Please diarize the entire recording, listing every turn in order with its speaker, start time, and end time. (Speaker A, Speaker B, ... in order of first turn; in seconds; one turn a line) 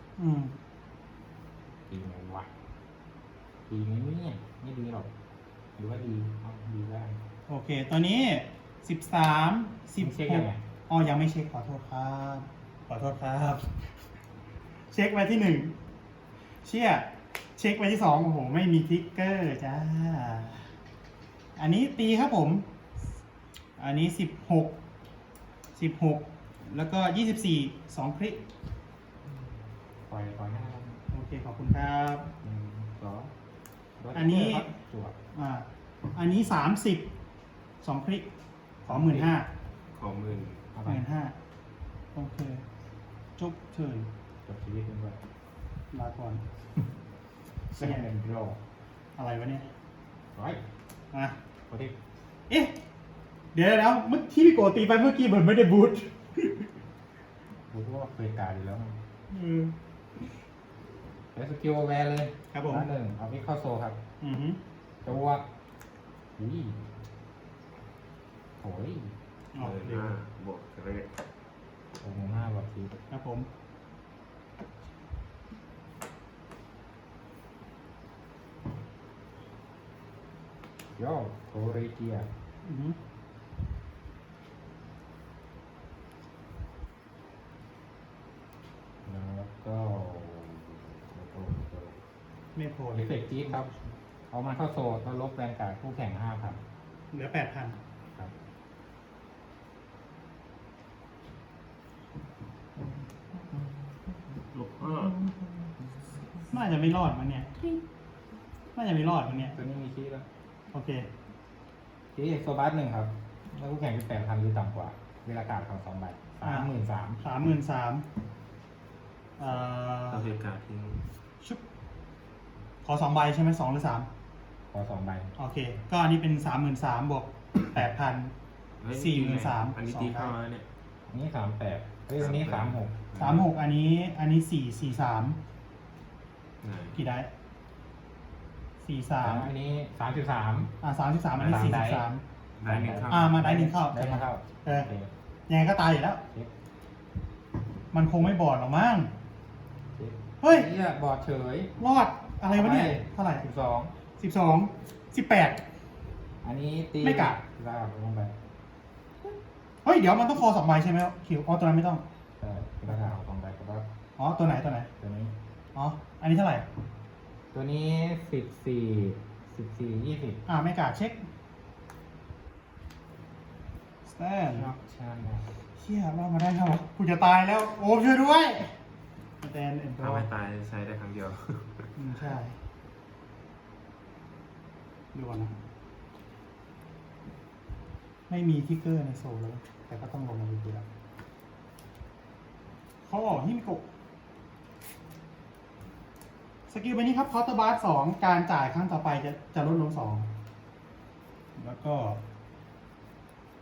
Speaker A: 0.2-0.6
Speaker B: 1.9-2.5
Speaker B: 3.7-5.1
Speaker B: 5.8-7.2
Speaker A: 7.5-13.9
Speaker B: 10.0-10.6
Speaker A: 14.9-15.7
Speaker A: 16.6-20.7
Speaker A: 21.6-22.6
Speaker A: 23.8-24.8
Speaker A: 25.8-28.4
Speaker B: 30.0-31.0
Speaker A: 31.1-32.3
Speaker B: 32.4-33.3
Speaker B: 34.0-35.2
Speaker A: 34.1-34.7
Speaker A: 35.3-37.0
Speaker A: 37.8-38.3
Speaker B: 38.9-39.3
Speaker A: 38.9-39.5
Speaker C: 39.9-40.6
Speaker B: 40.8-41.0
Speaker A: 40.9-41.4
Speaker A: 42.1-42.6
Speaker A: 43.4-44.1
Speaker B: 44.5-45.2
Speaker A: 45.9-46.4
Speaker A: 47.8-48.1
Speaker B: 47.8-48.6
Speaker A: 49.2-49.7
Speaker B: 50.4-50.6
Speaker A: 53.5-56.7
Speaker B: 57.7-59.0
Speaker A: 59.3-59.8
Speaker B: 61.3-64.0
Speaker A: 62.5-62.9
Speaker A: 64.2-64.6
Speaker B: 65.0-65.4
Speaker B: 66.4-66.8
Speaker B: 68.6-69.2
Speaker A: 69.5-70.1
Speaker C: 69.6-71.1
Speaker B: 72.0-72.9
Speaker A: 73.1-73.5
Speaker B: 81.0-82.3
Speaker A: 82.7-83.0
Speaker B: 89.0-92.0
Speaker A: 92.5-93.6
Speaker B: 92.9-93.8
Speaker B: 94.3-96.6
Speaker A: 97.1-97.8
Speaker B: 102.8-106.5
Speaker C: 104.5-105.1
Speaker A: 106.5-107.7
Speaker A: 108.8-109.6
Speaker B: 109.3-110.3
Speaker A: 110.7-111.1
Speaker B: 112.2-117.5
Speaker A: 116.4-118.1
Speaker A: 119.4-120.3
Speaker C: 120.1-121.0
Speaker A: 122.8-124.1
Speaker B: 124.7-125.3
Speaker A: 125.4-128.3
Speaker C: 128.8-130.7
Speaker A: 128.9-130.3
Speaker B: 131.1-133.1
Speaker C: 132.2-133.5
Speaker A: 133.2-135.4
Speaker C: 136.6-137.0
Speaker A: 136.9-137.3
Speaker A: 138.8-139.5
Speaker B: 139.2-140.7
Speaker A: 140.8-142.2
Speaker B: 141.4-142.1
Speaker C: 142.6-143.4
Speaker B: 142.6-145.1
Speaker A: 143.1-144.9
Speaker A: 145.5-146.2
Speaker A: 147.9-149.1
Speaker B: 150.0-151.7
Speaker A: 150.4-150.7
Speaker A: 151.8-153.5
Speaker B: 152.5-153.9
Speaker A: 154.2-155.6
Speaker B: 156.4-158.3
Speaker A: 157.0-157.4
Speaker A: 159.8-162.0
Speaker B: 162.4-163.9
Speaker A: 164.2-164.9
Speaker B: 165.0-165.3
Speaker A: 165.8-166.7
Speaker B: 167.5-170.4
Speaker A: 170.5-171.2
Speaker A: 174.1-174.7
Speaker B: 174.5-175.4
Speaker A: 175.8-178.7
Speaker A: 179.4-180.3
Speaker C: 180.0-181.7
Speaker A: 182.0-182.6
Speaker A: 185.1-185.6
Speaker A: 188.3-190.9
Speaker A: 193.1-193.8
Speaker A: 196.7-200.3
Speaker A: 201.6-202.2